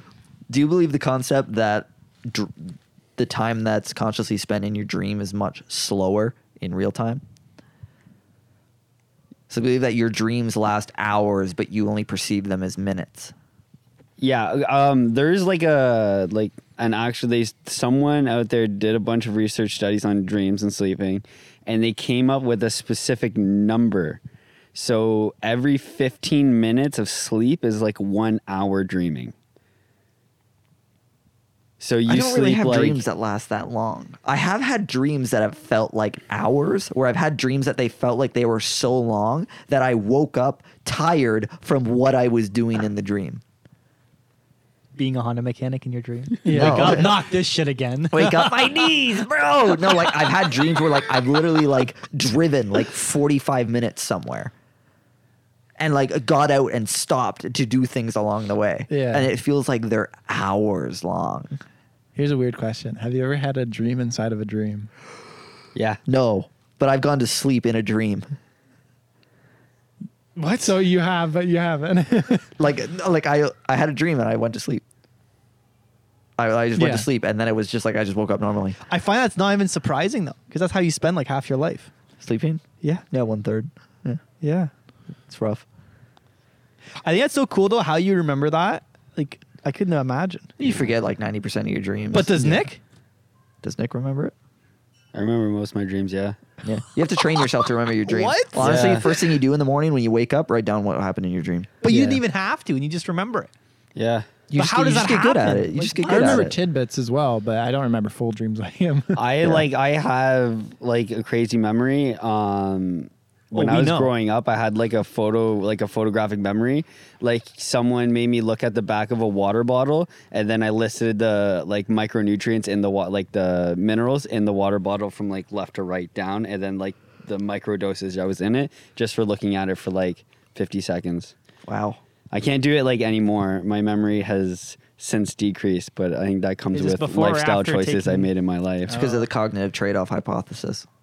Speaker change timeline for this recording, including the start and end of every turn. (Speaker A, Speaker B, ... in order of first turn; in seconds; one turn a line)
Speaker A: 0.5-7.2
Speaker A: 9.5-13.3
Speaker B: 14.2-24.2
Speaker B: 24.7-29.3
Speaker B: 31.8-33.1
Speaker A: 32.1-43.4
Speaker C: 45.0-48.9
Speaker D: 46.4-47.1
Speaker A: 46.5-47.1
Speaker A: 48.1-54.5
Speaker A: 55.8-61.6
Speaker D: 58.9-59.3
Speaker D: 62.1-64.9
Speaker B: 65.8-66.0
Speaker A: 66.1-68.3
Speaker C: 70.4-70.7
Speaker D: 70.6-72.5
Speaker A: 72.6-74.8
Speaker A: 76.4-78.8
Speaker D: 76.8-77.1
Speaker C: 78.9-81.9
Speaker A: 82.2-84.2
Speaker C: 84.4-84.7
Speaker A: 85.3-85.7
Speaker C: 87.0-90.5
Speaker A: 90.6-92.7
Speaker C: 92.1-92.8
Speaker A: 93.6-94.3
Speaker B: 95.1-96.4
Speaker A: 96.6-101.7
Speaker C: 98.1-99.3
Speaker B: 98.6-99.2
Speaker C: 101.8-103.5
Speaker D: 101.9-102.2
Speaker B: 104.0-104.3
Speaker A: 104.5-106.6
Speaker C: 104.5-106.5
Speaker D: 106.0-109.2
Speaker B: 109.2-131.3
Speaker C: 113.5-114.1
Speaker A: 131.7-132.0
Speaker B: 132.3-139.0
Speaker C: 136.7-138.3
Speaker C: 138.9-139.3
Speaker A: 138.9-140.9